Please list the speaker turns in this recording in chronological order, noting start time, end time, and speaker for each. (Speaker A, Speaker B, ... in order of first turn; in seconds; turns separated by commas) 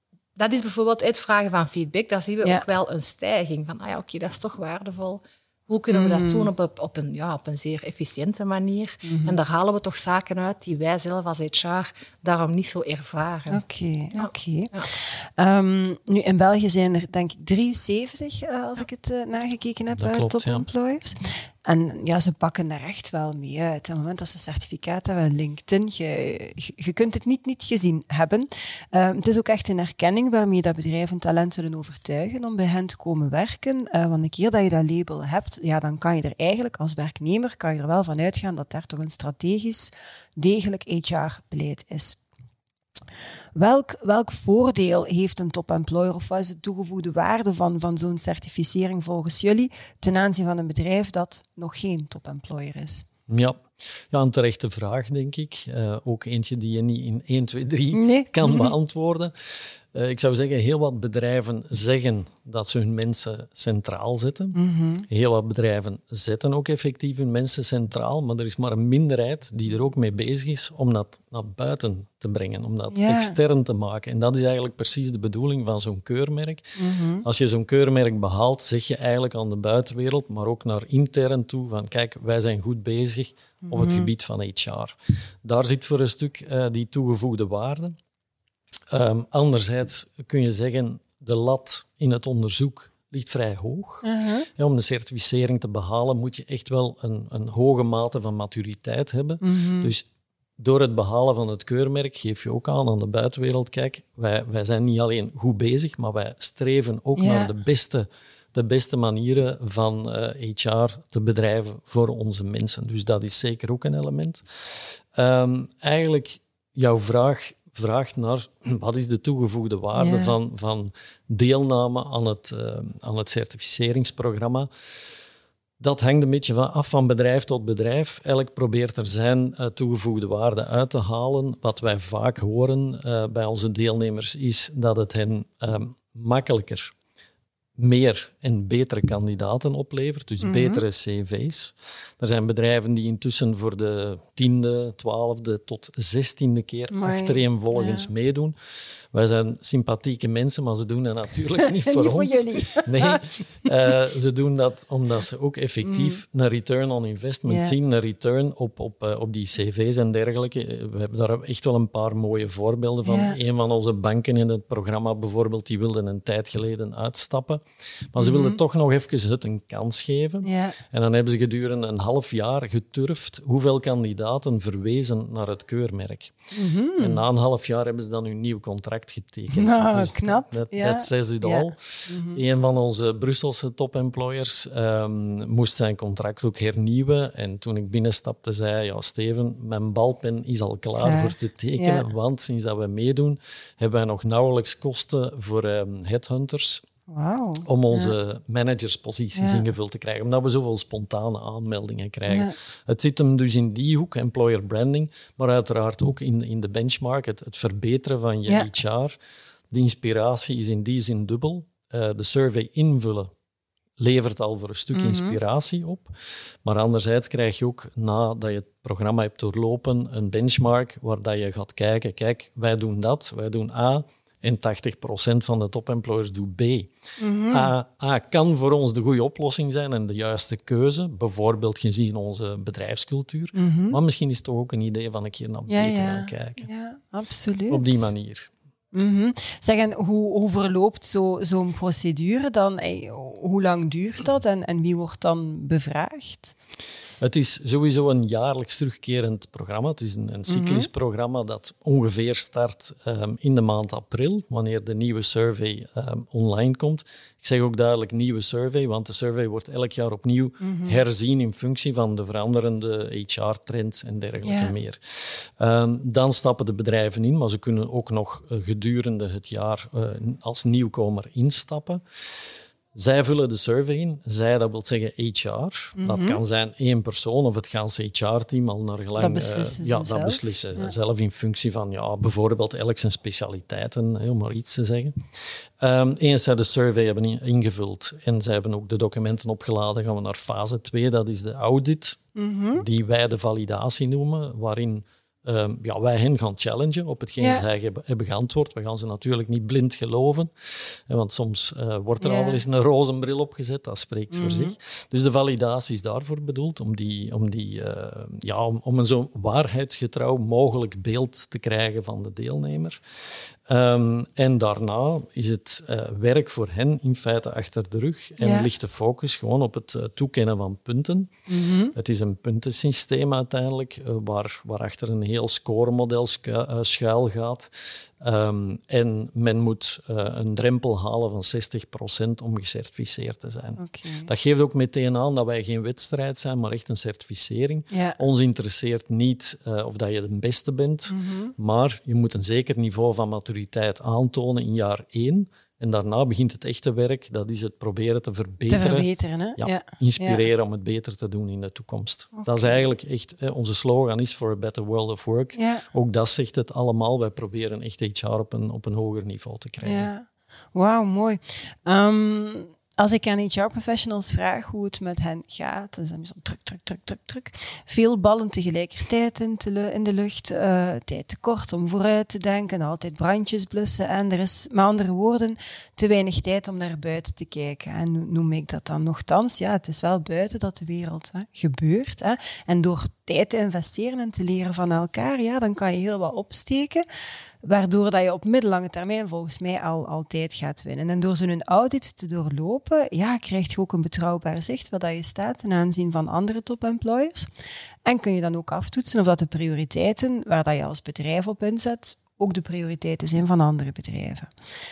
Speaker A: 0.4-13.6, Speaker B: 5.9-6.5, Speaker B: 9.0-9.4, Speaker B: 13.5-42.2, Speaker A: 14.1-14.9, Speaker C: 19.9-20.7, Speaker B: 43.5-53.1, Speaker C: 53.3-64.6, Speaker B: 57.9-58.7, Speaker B: 64.5-65.1, Speaker C: 65.1-88.0, Speaker B: 72.9-73.4, Speaker B: 76.8-77.2, Speaker B: 83.7-84.1, Speaker C: 88.9-100.1, Speaker B: 94.0-94.5, Speaker B: 99.4-99.9, Speaker C: 100.6-124.7, Speaker B: 107.2-107.5, Speaker B: 120.0-120.3, Speaker C: 125.8-136.9, Speaker C: 137.8-148.6, Speaker B: 140.4-140.8, Speaker B: 146.9-148.1, Speaker C: 149.1-176.3, Speaker B: 151.7-153.7, Speaker B: 155.8-156.2, Speaker B: 157.5-157.7, Speaker B: 163.1-163.4, Speaker B: 168.2-168.6, Speaker B: 170.4-170.8, Speaker B: 176.5-177.2, Speaker C: 177.0-196.8, Speaker B: 179.5-182.4, Speaker B: 191.0-192.1, Speaker B: 197.1-198.1, Speaker C: 197.7-209.2, Speaker B: 199.4-199.7, Speaker B: 202.3-202.6, Speaker C: 209.7-213.3, Speaker C: 214.0-216.1, Speaker B: 214.9-215.4, Speaker C: 216.6-226.9, Speaker B: 227.2-227.7, Speaker C: 227.5-236.7, Speaker B: 233.5-234.0, Speaker B: 235.7-238.1, Speaker C: 237.7-238.5, Speaker B: 238.9-246.6, Speaker C: 247.2-272.0, Speaker B: 250.5-250.9, Speaker B: 260.6-261.0, Speaker B: 264.4-264.7, Speaker C: 272.9-285.2, Speaker B: 276.0-276.4, Speaker B: 279.2-280.9, Speaker C: 285.8-292.2, Speaker B: 292.4-292.9, Speaker C: 292.8-321.3, Speaker B: 297.4-297.6, Speaker B: 302.2-302.6, Speaker B: 304.3-304.7, Speaker B: 318.4-318.7, Speaker B: 321.5-321.9, Speaker C: 321.9-360.1, Speaker B: 333.8-334.3, Speaker B: 337.9-338.2, Speaker B: 341.1-341.5, Speaker B: 348.7-350.4, Speaker B: 352.3-352.8, Speaker B: 355.6-355.8, Speaker B: 359.8-387.0, Speaker B: 387.6-397.5, Speaker B: 398.1-404.5